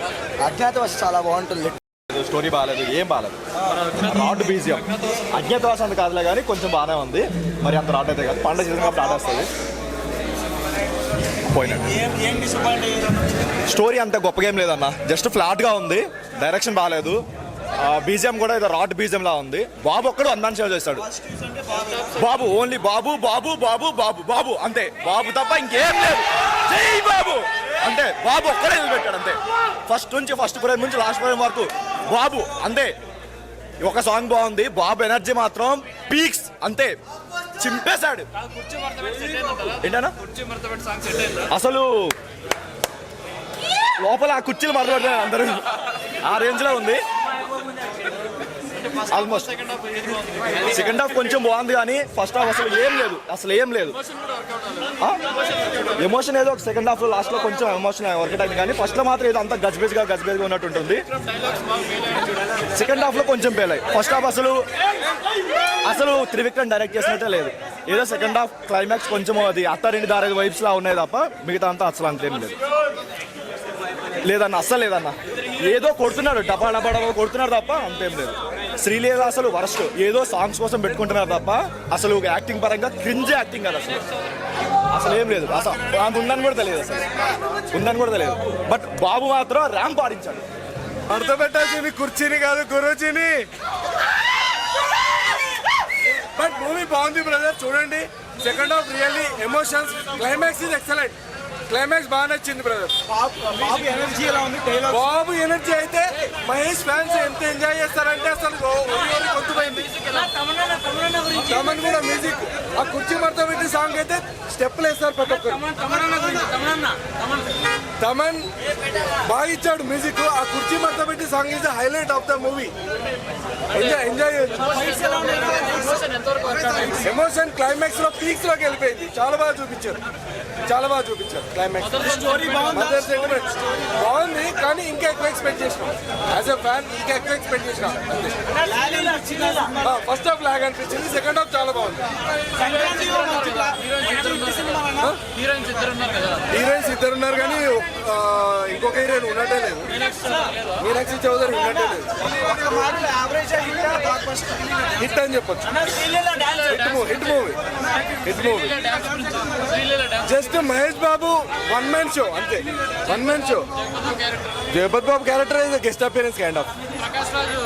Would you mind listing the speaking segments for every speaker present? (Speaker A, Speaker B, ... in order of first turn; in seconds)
Speaker A: 0.4-1.8, 103.6-104.2, 152.8-153.8
Speaker B: 2.1-9.5, 11.4-12.3, 13.7-17.2, 17.8-21.1, 22.0-32.9, 33.8-36.9, 37.6-38.3, 39.0-40.1, 41.2-42.1, 44.0-45.7, 46.2-47.0, 48.9-49.7, 50.5-54.0, 55.0-61.0, 62.7-64.6, 65.8-72.5, 74.2-84.0, 84.9-90.4, 104.3-104.8
Speaker C: 91.1-93.5, 96.3-103.1, 104.8-110.3, 111.2-116.7, 118.0-118.5, 119.2-122.7, 123.7-130.0, 130.6-142.2, 142.9-143.6, 144.7-145.2, 146.4-152.4, 154.2-157.6, 158.2-159.2, 160.0-163.7, 164.5-166.7